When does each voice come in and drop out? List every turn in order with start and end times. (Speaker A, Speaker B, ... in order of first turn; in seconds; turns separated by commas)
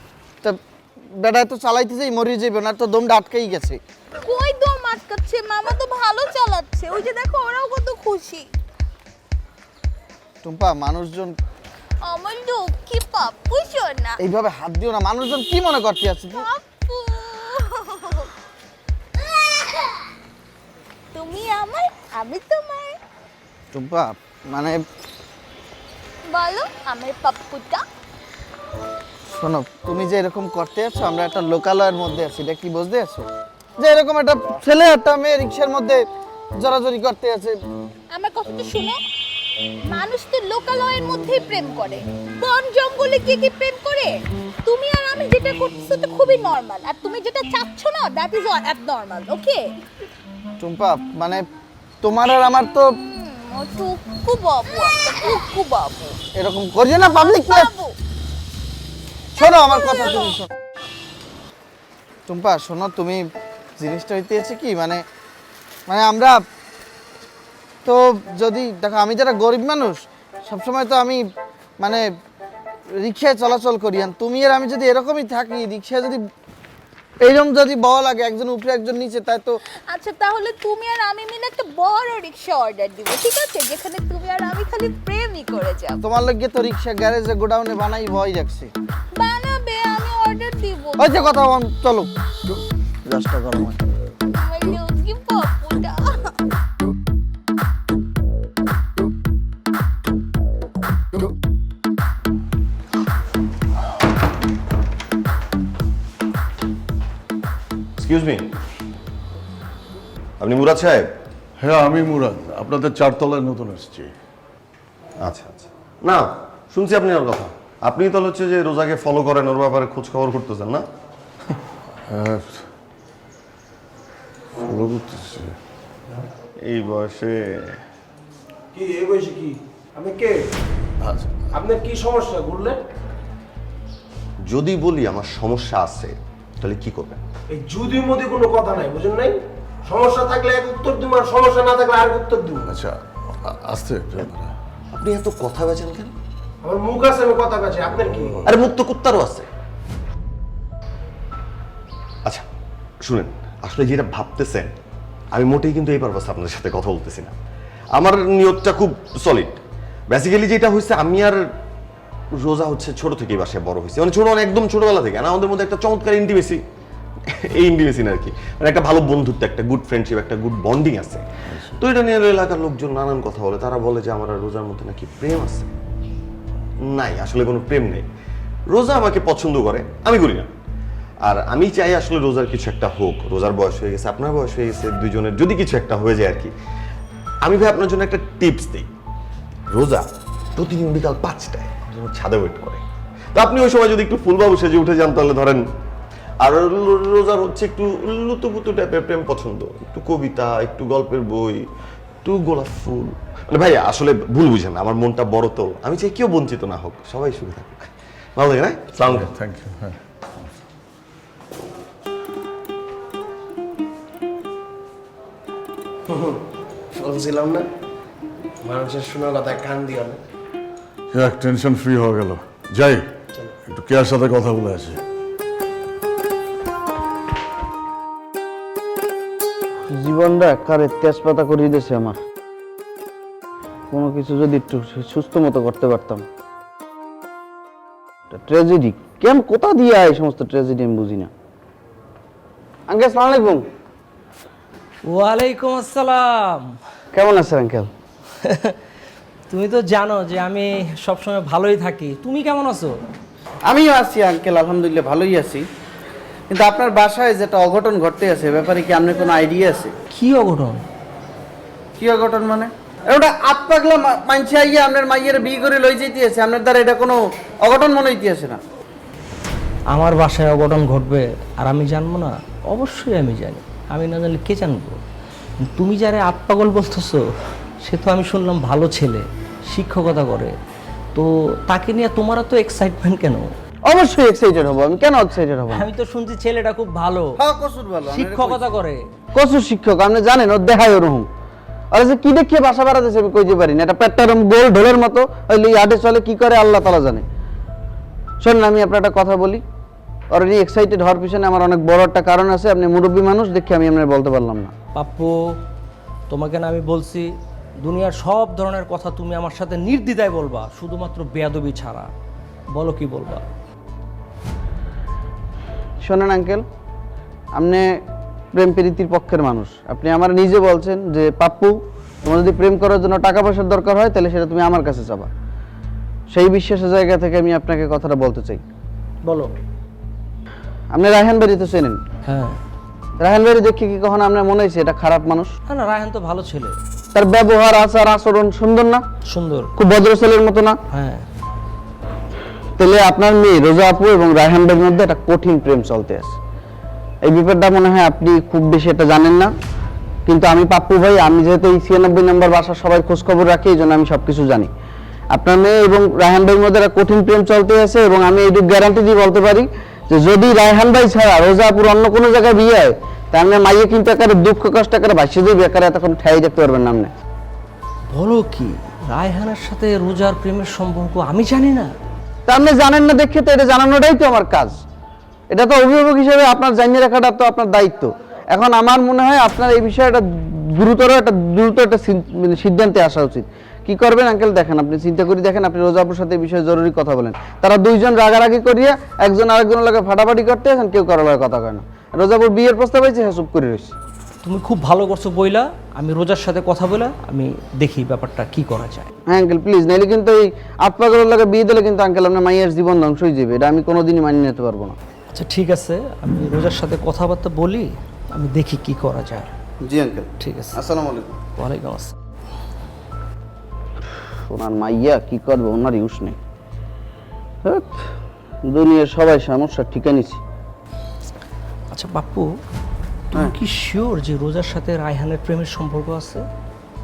Speaker A: 1.2-3.8, Speaker B: 4.2-8.4, Speaker A: 10.4-11.4, Speaker B: 12.1-14.1, Speaker A: 14.2-16.4, Speaker B: 16.9-18.0, Speaker B: 21.2-22.9, Speaker A: 23.7-24.8, Speaker B: 26.3-27.8, Speaker A: 29.3-33.3, Speaker A: 33.8-36.0, Speaker A: 36.6-37.6, Speaker B: 38.1-39.0, Speaker B: 39.9-44.1, Speaker B: 44.7-49.5, Speaker A: 50.6-51.5, Speaker A: 52.0-52.9, Speaker B: 53.5-56.1, Speaker A: 56.4-57.7, Speaker A: 59.4-60.5, Speaker A: 62.3-63.2, Speaker A: 63.8-65.0, Speaker A: 65.9-66.4, Speaker A: 67.8-71.2, Speaker A: 73.0-76.2, Speaker A: 77.2-79.6, Speaker B: 80.0-86.0, Speaker A: 86.0-88.7, Speaker B: 89.2-91.2, Speaker A: 91.0-92.1, Speaker A: 93.1-93.8, Speaker B: 94.4-96.0, Speaker C: 108.0-108.5, Speaker C: 110.4-111.1, Speaker D: 111.6-114.1, Speaker C: 115.2-120.8, Speaker D: 122.1-122.7, Speaker D: 124.6-125.5, Speaker C: 126.7-127.8, Speaker E: 128.7-130.4, Speaker D: 131.0-131.4, Speaker E: 131.5-132.8, Speaker C: 134.5-137.2, Speaker E: 137.5-139.4, Speaker E: 139.9-142.8, Speaker D: 142.7-144.5, Speaker C: 144.9-146.1, Speaker E: 146.6-148.4, Speaker C: 148.5-149.5, Speaker C: 153.0-154.7, Speaker C: 155.3-157.3, Speaker C: 157.9-159.6, Speaker C: 160.1-161.5, Speaker C: 162.4-166.6, Speaker C: 167.3-171.3, Speaker C: 171.8-175.7, Speaker C: 176.8-178.1, Speaker C: 178.7-180.5, Speaker C: 181.2-186.5, Speaker C: 187.4-188.9, Speaker C: 189.7-192.8, Speaker C: 193.3-195.6, Speaker C: 196.4-201.6, Speaker C: 202.2-209.3, Speaker D: 209.1-210.0, Speaker E: 216.1-216.4, Speaker E: 216.9-217.7, Speaker E: 218.6-220.2, Speaker D: 221.1-223.0, Speaker D: 223.7-225.0, Speaker A: 229.9-232.2, Speaker A: 233.9-236.2, Speaker A: 238.3-241.3, Speaker A: 242.9-243.6, Speaker F: 245.1-246.8, Speaker A: 247.1-247.9, Speaker F: 248.4-248.8, Speaker F: 249.5-252.9, Speaker A: 253.7-255.7, Speaker A: 256.5-259.9, Speaker F: 260.1-260.8, Speaker A: 262.0-268.6, Speaker F: 269.9-275.0, Speaker F: 275.6-277.2, Speaker F: 277.8-280.6, Speaker F: 281.1-283.5, Speaker A: 283.9-285.8, Speaker F: 285.7-287.4, Speaker A: 287.4-288.6, Speaker F: 288.1-289.0, Speaker A: 289.3-291.3, Speaker A: 291.9-297.3, Speaker A: 298.4-299.6, Speaker A: 300.3-304.7, Speaker F: 304.9-305.6, Speaker F: 306.3-312.1, Speaker F: 312.7-313.4, Speaker A: 316.0-316.7, Speaker A: 317.6-318.0, Speaker A: 318.5-325.3, Speaker A: 326.3-328.6, Speaker A: 330.9-332.0, Speaker F: 332.2-332.6, Speaker A: 333.2-335.5, Speaker F: 335.7-336.8, Speaker A: 337.1-339.1, Speaker F: 339.3-339.7, Speaker A: 339.8-340.8, Speaker F: 340.9-341.2, Speaker A: 342.8-346.4, Speaker A: 347.2-349.5, Speaker A: 350.3-354.7, Speaker A: 355.3-367.1, Speaker F: 368.1-371.9, Speaker A: 372.5-374.8, Speaker A: 375.5-380.2, Speaker A: 380.8-393.9, Speaker F: 394.4-399.1, Speaker A: 399.3-405.0, Speaker F: 405.3-409.5, Speaker A: 409.8-411.4, Speaker F: 410.4-410.8, Speaker F: 411.6-412.2, Speaker A: 414.5-416.4, Speaker A: 417.6-418.1, Speaker A: 418.7-420.4, Speaker F: 421.9-422.6, Speaker F: 423.3-426.5